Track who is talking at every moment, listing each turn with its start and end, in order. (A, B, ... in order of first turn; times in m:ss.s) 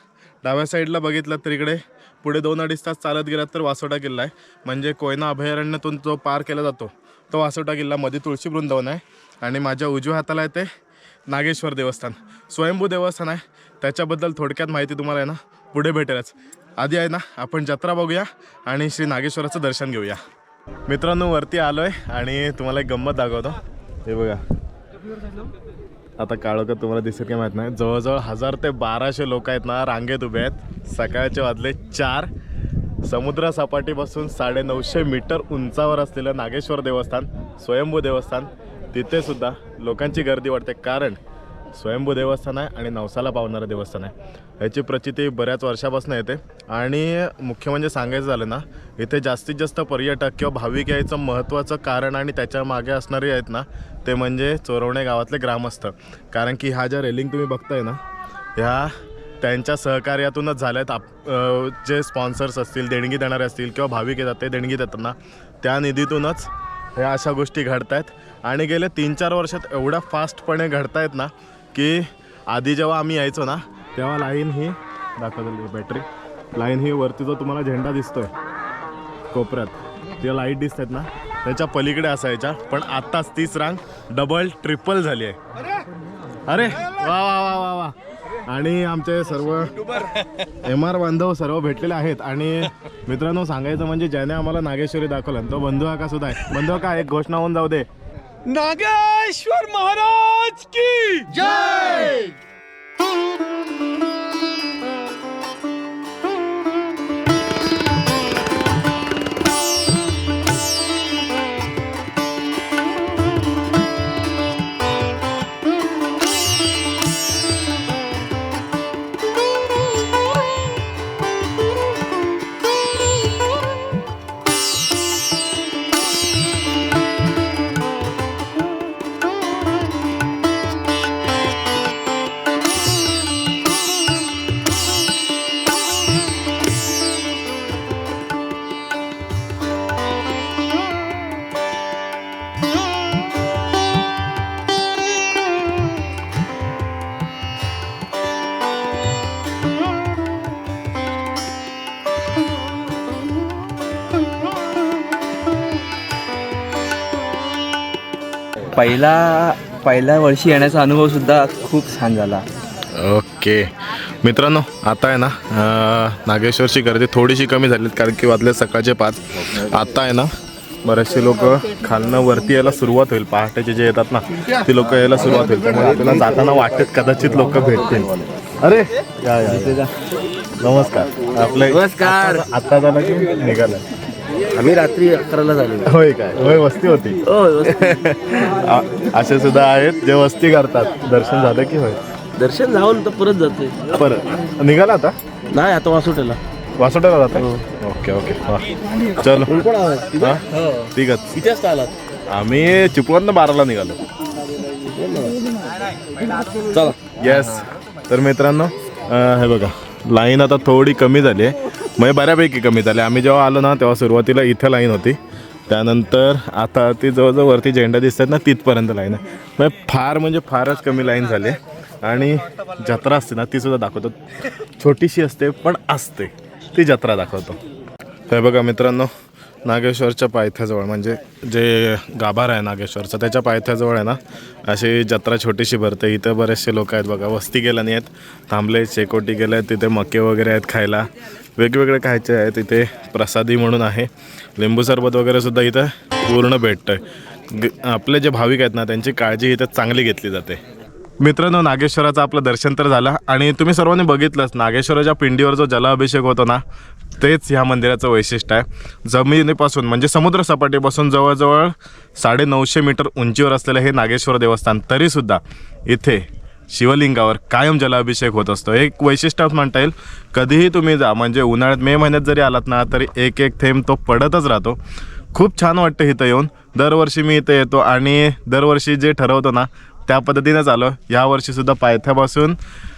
0:00.4-0:10.7 A
0:11.3-0:20.2 A
0:20.9-0:24.4 A
0:26.2-0:32.3 A
0:33.0-0:41.2 A
0:41.7-0:58.0 A
0:58.6-1:18.3 A
1:19.3-1:25.4 A
1:26.5-1:29.9 A
1:30.4-1:37.9 A
1:38.6-1:41.8 B
1:38.7-1:39.9 C
2:38.7-2:42.5 C
2:42.9-2:59.9 A
3:00.6-3:03.8 A
3:01.7-3:02.4 C
3:04.5-3:05.9 C
3:05.8-3:12.0 A
3:07.2-3:08.0 C
3:12.4-3:13.9 C
3:13.9-3:15.2 A
3:15.5-3:16.4 C
3:16.8-3:19.6 A
3:19.5-3:20.4 C
3:20.2-3:21.4 A
3:21.4-3:21.9 C
3:22.3-3:24.0 A
3:24.8-3:25.6 C
3:26.4-3:27.0 C
3:27.2-3:47.6 A
3:48.3-3:49.1 A
3:49.7-4:10.6 A
4:11.2-4:16.6 A
4:17.2-4:34.8 A
4:35.3-4:42.6 A